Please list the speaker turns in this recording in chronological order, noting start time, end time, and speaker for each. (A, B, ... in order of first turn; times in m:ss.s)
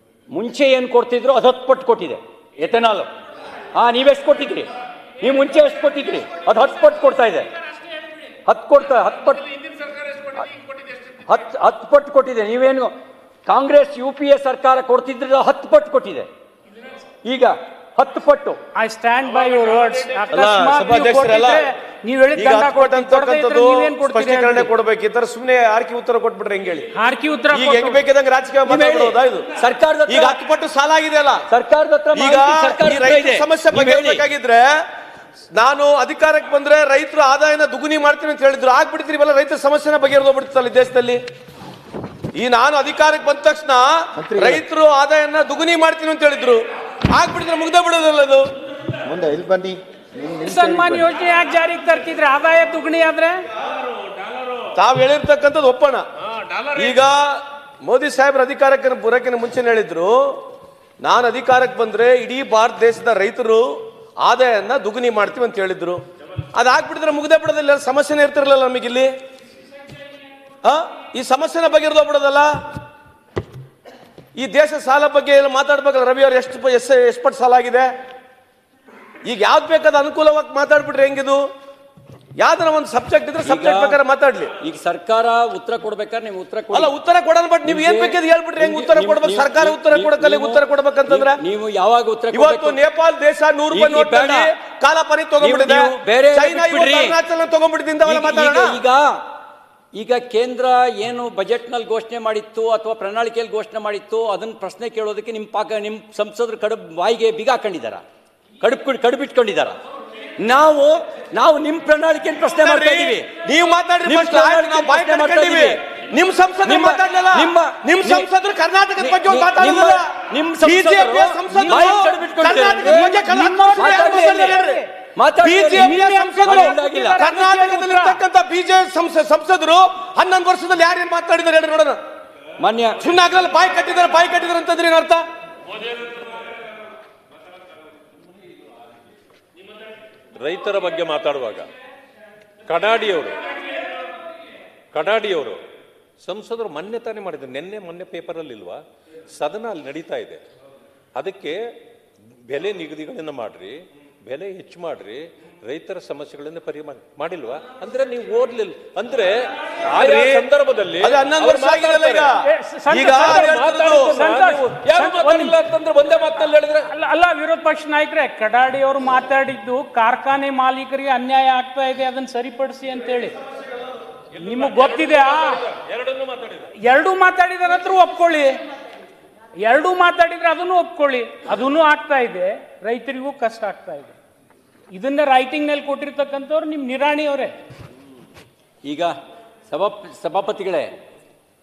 0:00.3-0:03.1 A
0:03.7-0:04.7 A
0:05.2-0:07.5 A
0:08.4-0:09.5 A
0:11.2-0:12.9 A
0:13.4-0:16.3 A
0:17.2-0:18.6 A
0:18.7-0:24.7 B
0:20.3-0:21.6 C
0:22.3-0:26.9 C
0:26.9-0:28.0 B
0:27.5-0:29.5 C
0:28.6-0:30.4 A
0:30.1-0:31.4 C
0:31.5-0:34.2 A
0:32.1-0:34.7 C
0:35.5-0:41.2 C
0:42.3-0:48.4 C
0:44.2-0:44.6 D
0:49.0-0:51.1 D
0:50.4-0:53.4 B
0:54.7-0:56.0 C
0:56.6-1:00.4 C
1:01.0-1:06.0 C
1:06.5-1:09.1 C
1:10.6-1:12.5 C
1:14.4-1:17.9 C
1:19.2-1:21.4 C
1:22.4-1:24.5 C
1:23.4-1:24.0 A
1:24.6-1:26.9 A
1:26.7-1:31.4 C
1:27.6-1:32.8 A
1:32.3-1:38.8 C
1:33.7-1:34.5 A
1:35.4-1:37.2 A
1:38.0-1:39.2 A
1:40.0-1:48.0 A
1:48.6-1:49.8 A
1:50.4-1:53.3 A
1:52.4-2:00.0 C
1:54.0-1:55.8 A
1:56.6-1:58.3 A
1:59.0-2:04.6 A
2:00.6-2:04.8 C
2:01.5-2:02.0 B
2:02.8-2:04.9 B
2:05.2-2:07.2 A
2:05.4-2:12.0 C
2:05.7-2:08.2 B
2:12.6-2:13.0 A
2:13.0-2:15.2 C
2:20.4-2:21.7 E
2:22.7-2:23.6 E
2:24.9-2:25.6 E
2:26.2-2:28.8 E
2:29.3-2:30.4 E
2:31.1-2:31.6 E
2:32.5-2:42.3 E
2:39.9-2:40.5 C
2:41.0-2:42.4 C
2:42.4-2:45.6 B
2:42.9-2:44.2 C
2:43.3-2:46.9 E
2:46.9-2:53.4 B
2:54.4-2:55.6 B
2:55.7-2:56.7 E
2:56.8-2:58.6 B
2:59.6-3:04.1 B
3:04.9-3:07.5 B
3:08.8-3:09.1 A
3:09.7-3:10.9 A